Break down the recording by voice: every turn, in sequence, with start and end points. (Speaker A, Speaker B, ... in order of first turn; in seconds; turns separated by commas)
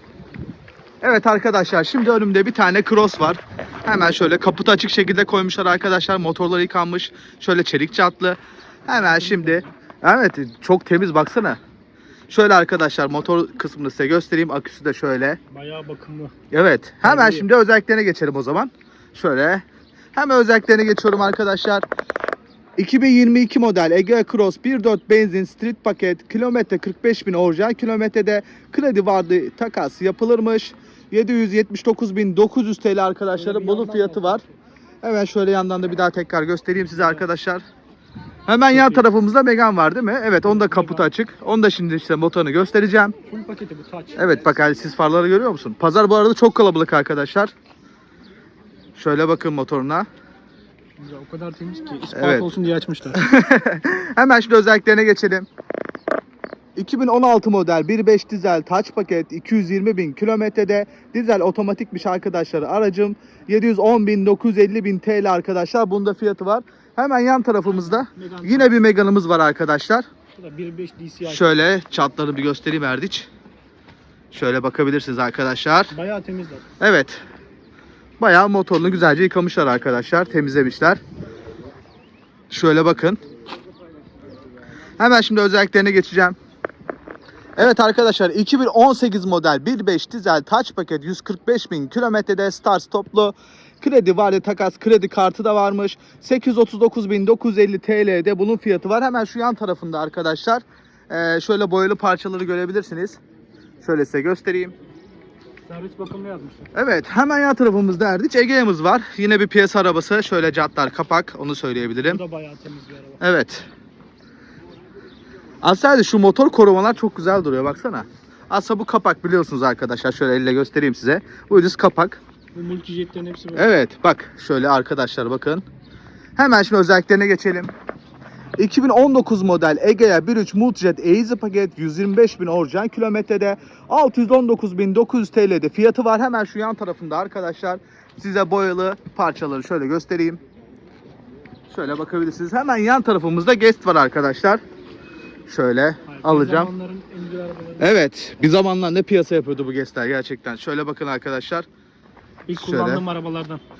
Speaker A: 1.0-11.6, Speaker B: 8.9-9.7, Speaker A: 12.3-15.4, Speaker B: 15.5-16.4, Speaker A: 16.5-19.6, Speaker B: 17.0-17.5, Speaker A: 20.1-21.9, Speaker A: 22.8-34.4, Speaker B: 33.4-34.5, Speaker A: 35.0-37.6, Speaker A: 38.5-43.1, Speaker B: 38.7-39.1, Speaker B: 40.4-41.1, Speaker B: 43.3-44.3, Speaker A: 44.2-47.5, Speaker A: 49.0-50.1, Speaker B: 51.0-53.3, Speaker A: 52.1-52.5, Speaker A: 53.1-55.5, Speaker A: 56.8-70.1, Speaker B: 67.8-68.8, Speaker B: 70.3-71.6, Speaker A: 71.2-73.3, Speaker A: 74.3-75.9, Speaker B: 75.9-76.7, Speaker A: 76.8-77.2, Speaker A: 78.2-81.0, Speaker A: 82.5-83.2, Speaker A: 85.0-86.4, Speaker A: 87.6-103.2, Speaker A: 103.8-104.7, Speaker B: 105.7-106.7, Speaker A: 106.7-112.2, Speaker B: 112.0-113.2, Speaker A: 113.2-113.7, Speaker A: 115.6-122.2, Speaker B: 122.5-123.7, Speaker A: 123.5-125.6, Speaker A: 126.4-127.7, Speaker A: 128.6-140.4, Speaker A: 141.7-144.6, Speaker A: 145.5-146.7, Speaker B: 146.1-147.9, Speaker A: 147.8-151.7, Speaker B: 152.5-153.6, Speaker A: 152.6-153.0